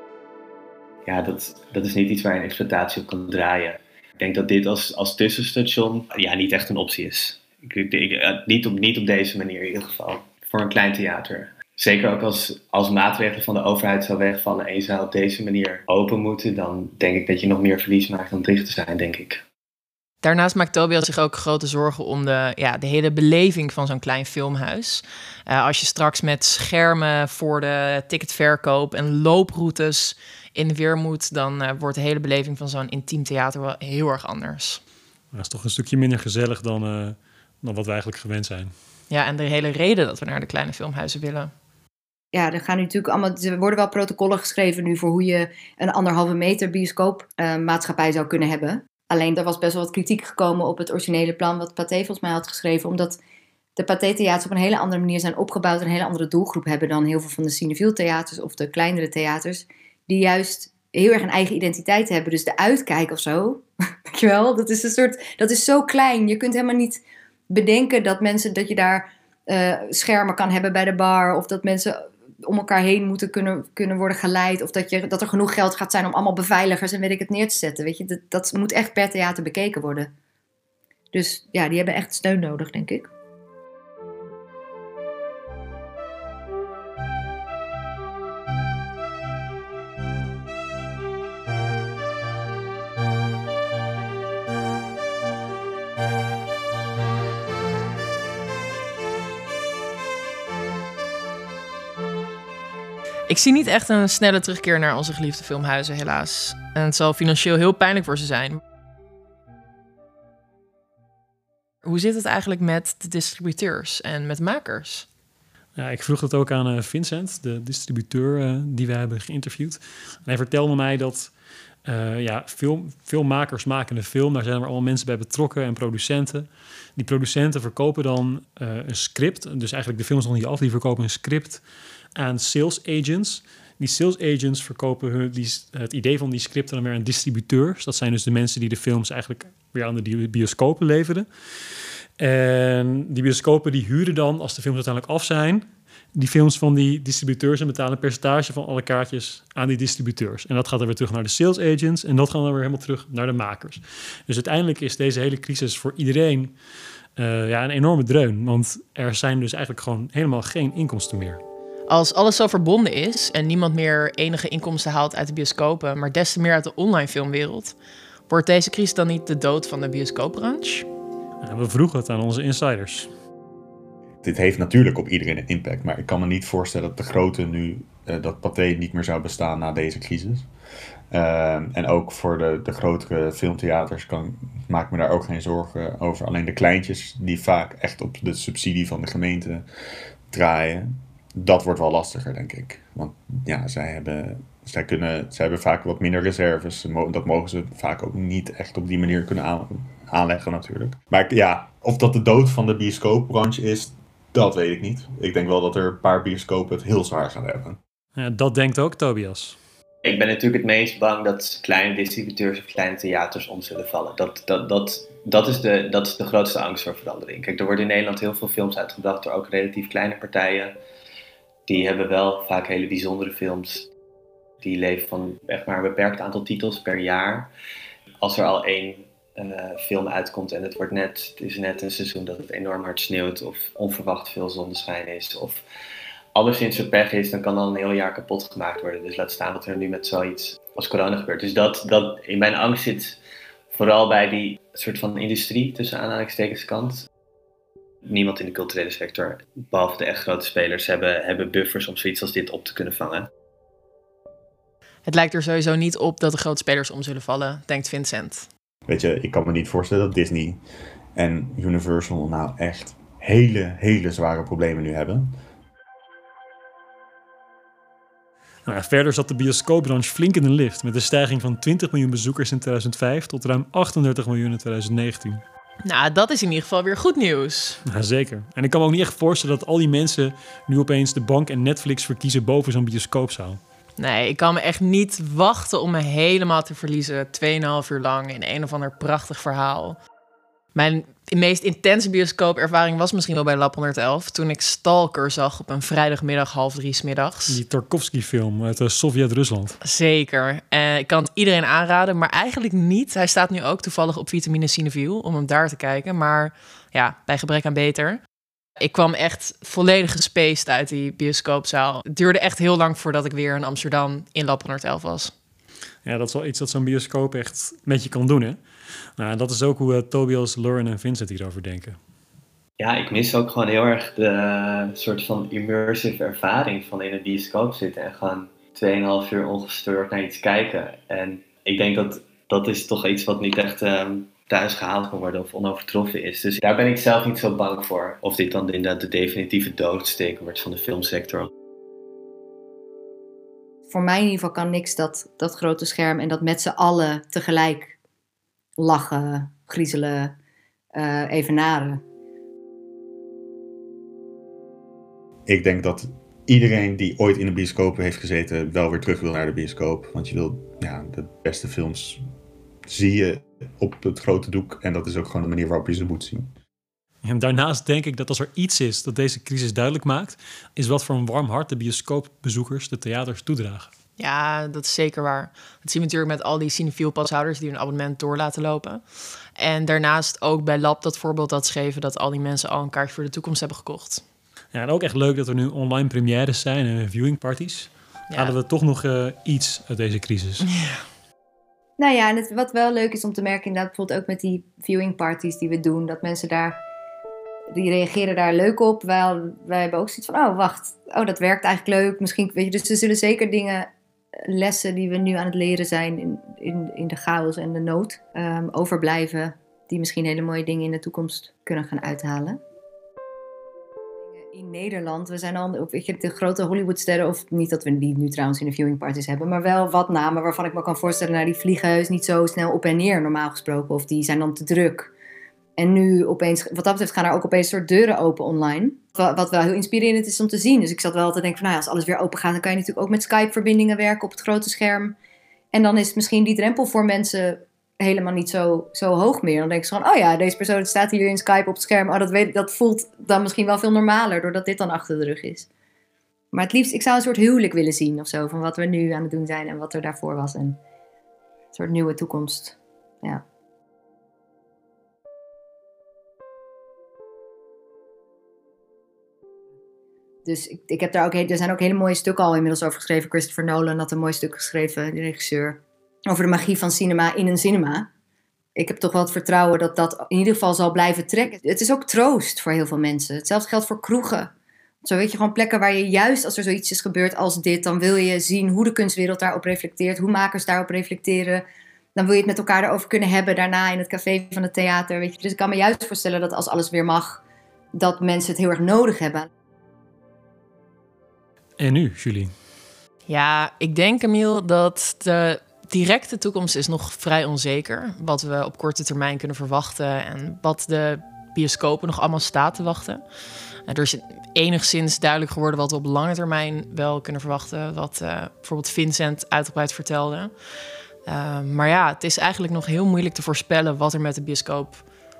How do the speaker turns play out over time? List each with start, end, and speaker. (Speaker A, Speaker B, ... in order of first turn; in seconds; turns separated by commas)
Speaker A: 1.1-19.4, Speaker B: 20.2-34.8, Speaker C: 35.3-38.7, Speaker B: 39.1-41.5, Speaker D: 42.3-53.2, Speaker D: 53.8-80.1, Speaker D: 81.1-83.1, Speaker B: 103.3-108.6, Speaker B: 111.8-115.0, Speaker C: 115.8-121.3, Speaker C: 121.8-131.6, Speaker C: 132.2-156.5, Speaker C: 157.2-161.4, Speaker B: 161.9-167.7, Speaker B: 168.3-170.9, Speaker C: 171.4-173.1, Speaker E: 174.2-180.4, Speaker E: 181.1-189.7, Speaker E: 190.3-207.8, Speaker C: 208.2-209.6, Speaker A: 210.0-220.8, Speaker A: 221.7-223.9, Speaker A: 224.6-227.5, Speaker A: 228.2-235.6, Speaker A: 236.3-243.2, Speaker A: 243.7-247.1, Speaker A: 248.0-253.3, Speaker B: 255.1-258.5, Speaker E: 258.9-260.6, Speaker E: 261.1-265.3, Speaker C: 268.6-275.4, Speaker B: 275.8-277.8, Speaker C: 277.9-283.6, Speaker B: 284.0-290.0, Speaker B: 290.7-297.6, Speaker C: 297.5-299.8, Speaker B: 299.8-308.2, Speaker B: 308.8-315.3, Speaker C: 316.0-318.6, Speaker C: 319.2-322.0, Speaker A: 322.8-341.5, Speaker D: 343.9-348.0, Speaker D: 348.8-350.3, Speaker D: 350.9-352.0, Speaker E: 355.4-362.2, Speaker E: 362.9-366.5, Speaker C: 367.2-373.9, Speaker B: 374.2-379.0, Speaker B: 379.6-384.2, Speaker C: 384.7-390.7, Speaker B: 390.7-391.0, Speaker D: 392.0-396.8, Speaker D: 397.7-403.9, Speaker D: 404.4-412.6, Speaker D: 414.4-425.1, Speaker D: 425.8-435.1, Speaker D: 435.7-445.7, Speaker D: 446.5-450.8, Speaker D: 451.7-453.4, Speaker D: 460.4-468.1, Speaker D: 468.8-474.5, Speaker D: 475.0-481.6, Speaker D: 482.1-487.4, Speaker D: 487.9-489.5, Speaker C: 491.8-492.5, Speaker B: 493.3-503.2, Speaker B: 503.9-510.5, Speaker B: 511.2-515.0